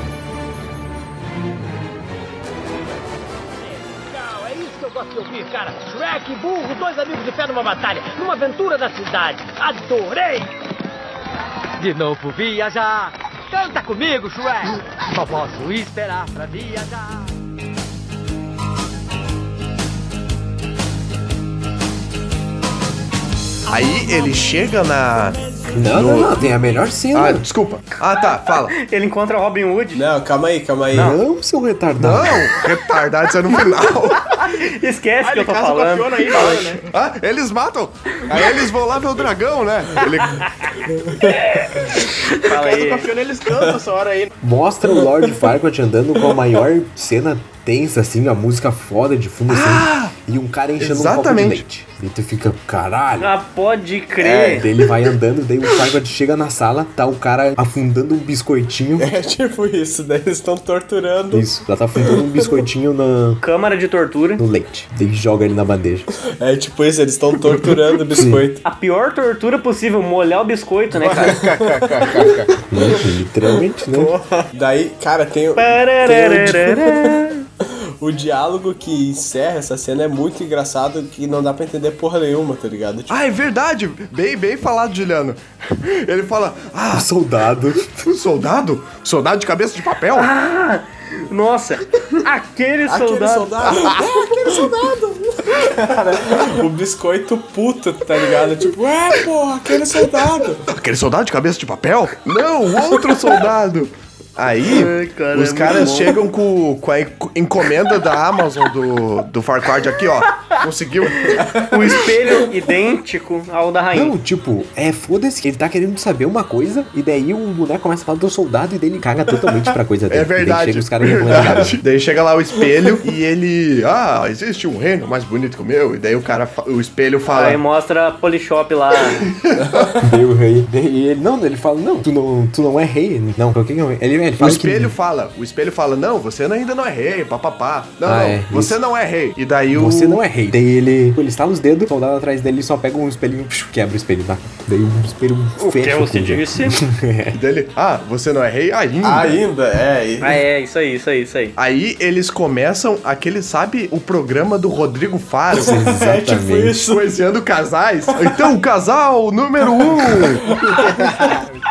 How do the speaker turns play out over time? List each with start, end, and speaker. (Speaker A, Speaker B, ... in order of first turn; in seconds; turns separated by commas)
Speaker A: 3.8-10.5, Speaker A: 11.8-17.2, Speaker B: 23.7-25.4, Speaker C: 25.7-27.4, Speaker B: 25.9-26.5, Speaker B: 27.1-28.7, Speaker D: 28.2-30.0, Speaker E: 29.9-31.1, Speaker C: 30.9-32.5, Speaker B: 32.0-34.4, Speaker D: 34.3-36.8, Speaker F: 35.2-36.8, Speaker B: 36.8-40.8, Speaker D: 41.2-43.1, Speaker F: 42.4-44.3, Speaker C: 44.4-53.3, Speaker E: 45.0-45.2, Speaker B: 49.5-50.1, Speaker B: 50.8-51.6, Speaker D: 53.2-54.6, Speaker E: 54.2-55.1, Speaker C: 54.5-59.2, Speaker E: 59.0-62.5, Speaker C: 61.3-63.4, Speaker D: 63.4-64.4, Speaker C: 64.4-66.2, Speaker E: 66.4-68.6, Speaker C: 68.2-68.5, Speaker D: 68.6-71.4, Speaker F: 70.9-72.5, Speaker E: 72.0-83.1, Speaker C: 72.7-74.1, Speaker D: 75.6-77.4, Speaker B: 83.1-87.1, Speaker C: 86.9-88.1, Speaker B: 88.0-90.3, Speaker D: 90.1-93.5, Speaker E: 92.9-94.7, Speaker B: 93.7-94.0, Speaker C: 93.7-95.3, Speaker E: 95.6-100.7, Speaker B: 100.7-111.5, Speaker E: 102.9-103.3, Speaker D: 104.7-106.2, Speaker E: 111.2-112.1, Speaker D: 111.7-114.1, Speaker C: 113.9-121.8, Speaker B: 120.1-127.6, Speaker E: 121.3-121.6, Speaker E: 122.6-123.0, Speaker D: 127.3-129.2, Speaker B: 129.5-129.9, Speaker E: 129.6-130.0, Speaker C: 130.0-134.9, Speaker B: 134.4-140.2, Speaker C: 138.0-138.8, Speaker C: 139.7-147.4, Speaker D: 145.6-146.8, Speaker B: 147.3-149.4, Speaker E: 149.0-150.4, Speaker D: 150.2-151.5, Speaker B: 151.6-155.8, Speaker C: 155.5-156.8, Speaker E: 155.5-157.1, Speaker B: 156.9-160.6, Speaker E: 158.2-158.5, Speaker E: 159.7-161.4